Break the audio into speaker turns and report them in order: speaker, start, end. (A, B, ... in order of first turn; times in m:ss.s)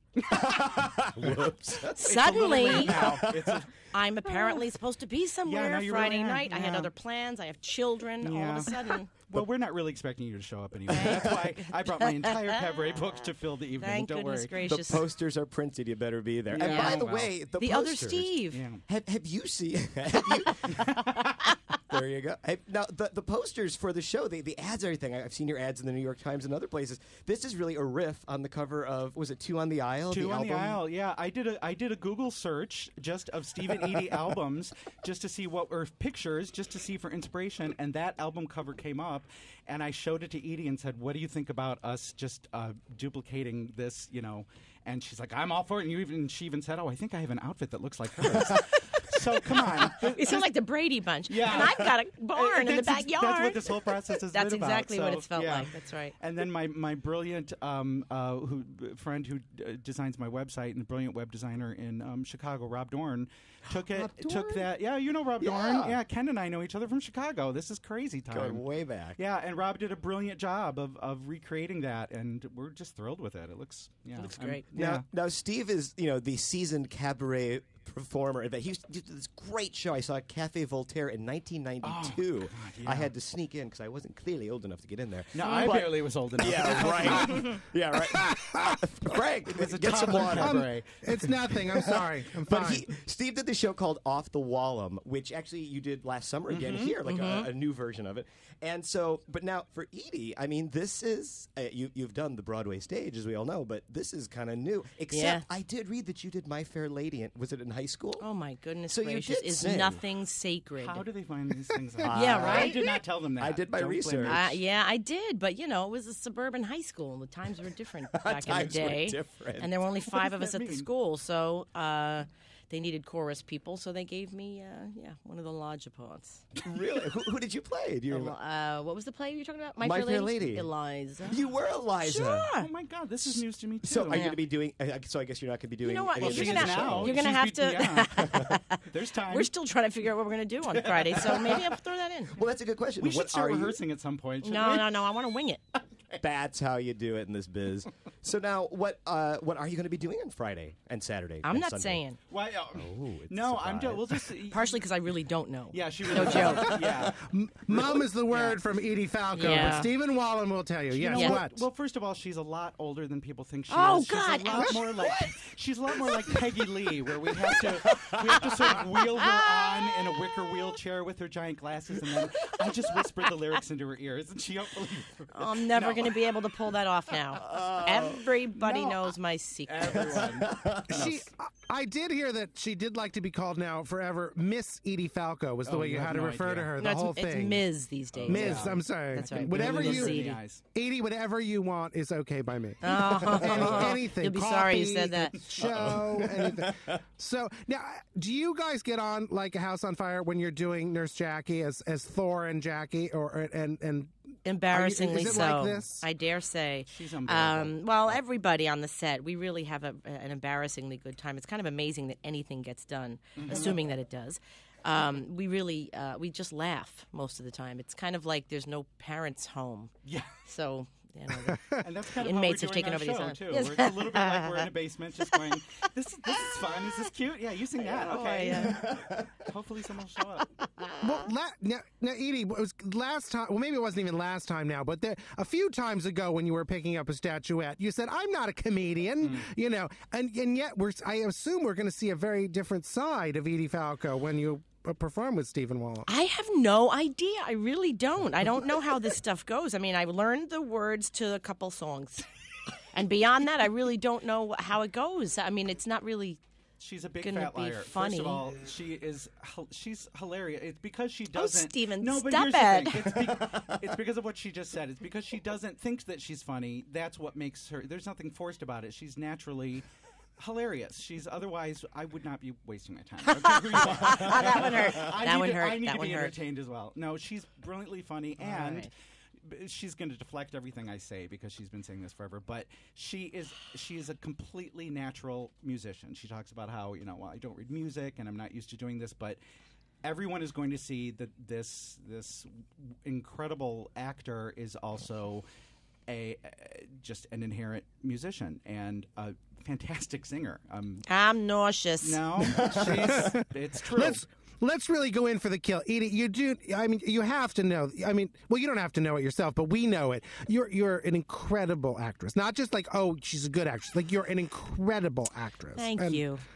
0:00.2-0:03.7 A
0:00.3-0:03.6 B
0:01.9-0:03.2 C
0:03.9-0:09.1 C
0:04.3-0:04.6 A
0:05.4-0:06.9 A
0:08.2-0:14.6 A
0:10.9-0:13.1 C
0:10.9-0:11.4 B
0:13.8-0:15.0 C
0:14.6-0:20.9 B
0:16.5-0:17.3 A
0:16.6-0:18.6 C
0:18.5-0:18.8 A
0:20.7-0:21.1 A
0:21.9-0:30.8 B
0:30.1-0:50.5 A
0:48.2-0:48.6 B
0:50.0-0:53.7 C
0:51.3-1:08.6 A
0:51.5-0:51.8 B
0:54.3-0:56.2 C
1:03.7-1:04.7 B
1:05.4-1:06.0 B
1:08.3-1:09.2 B
1:09.2-1:15.0 A
1:14.2-1:14.6 C
1:14.2-1:30.6 B
1:21.8-1:23.1 A
1:25.3-1:27.6 A
1:25.4-1:25.7 C
1:28.0-1:28.8 D
1:29.5-1:31.0 A
1:30.2-1:32.8 D
1:31.5-1:48.2 B
1:36.5-1:36.9 A
1:37.0-1:37.5 C
1:45.1-1:45.4 C
1:48.2-1:51.0 C
1:48.9-1:50.0 B
1:50.8-1:54.6 A
1:52.0-1:54.4 B
1:52.1-1:52.8 C
1:54.2-2:06.4 C
1:58.1-1:59.7 B
2:00.0-2:00.9 A
2:06.6-2:08.4 B
2:08.1-2:11.4 C
2:09.8-2:10.7 B
2:11.3-2:12.5 B
2:12.0-2:12.7 C
2:12.6-2:14.3 A
2:13.8-2:17.2 B
2:14.1-2:14.4 C
2:15.8-2:22.4 C
2:16.2-2:19.5 A
2:20.8-2:21.6 A
2:22.3-2:23.8 B
2:23.0-2:24.9 A
2:24.4-2:25.6 C
2:26.2-2:32.0 B
2:31.4-2:32.2 C
2:32.3-2:34.8 A
2:32.7-2:34.2 B
2:34.5-2:36.7 C
2:35.7-2:37.2 A
2:36.3-2:37.1 B
2:36.5-2:41.6 D
2:37.7-2:38.0 B
2:38.3-2:38.6 A
2:39.3-2:39.9 C
2:40.9-2:56.1 A
2:41.1-2:41.4 C
2:43.7-2:44.8 C
2:46.0-2:46.4 B
2:47.1-2:49.0 B
2:52.1-2:52.9 B
2:55.3-3:00.2 C
2:57.4-2:58.2 B
2:59.7-3:01.3 A
2:59.9-3:01.1 B
3:00.9-3:07.6 D
3:05.6-3:06.7 A
3:06.8-3:10.4 C
3:08.2-3:10.6 A
3:08.3-3:10.2 D
3:10.7-3:24.1 D
3:12.8-3:15.4 C
3:15.6-3:17.0 B
3:24.4-3:39.9 C
3:24.7-3:26.0 D
3:26.9-3:27.7 A
3:33.4-3:33.8 A
3:33.5-3:33.7 B
3:40.0-3:40.3 A
3:40.4-3:44.7 C
3:41.5-3:41.8 D
3:41.8-3:48.9 A
3:48.0-3:48.8 C
3:48.0-3:49.4 B
3:49.4-3:50.5 A
3:50.8-3:51.0 B
3:51.0-4:06.1 D
4:06.1-4:12.2 C
4:12.9-4:16.4 C
4:16.8-4:29.8 A
4:17.2-4:18.4 C
4:21.3-4:23.1 C
4:23.1-4:23.7 B
4:30.4-4:38.9 A
4:33.2-4:36.3 C
4:34.0-4:34.8 B
4:38.4-4:38.9 C
4:39.4-4:49.4 A
4:50.0-4:55.4 A
4:56.1-5:01.0 A
5:01.0-5:02.2 C
5:02.0-5:04.2 A
5:02.4-5:03.2 B
5:03.0-5:16.2 D
5:15.8-5:16.4 C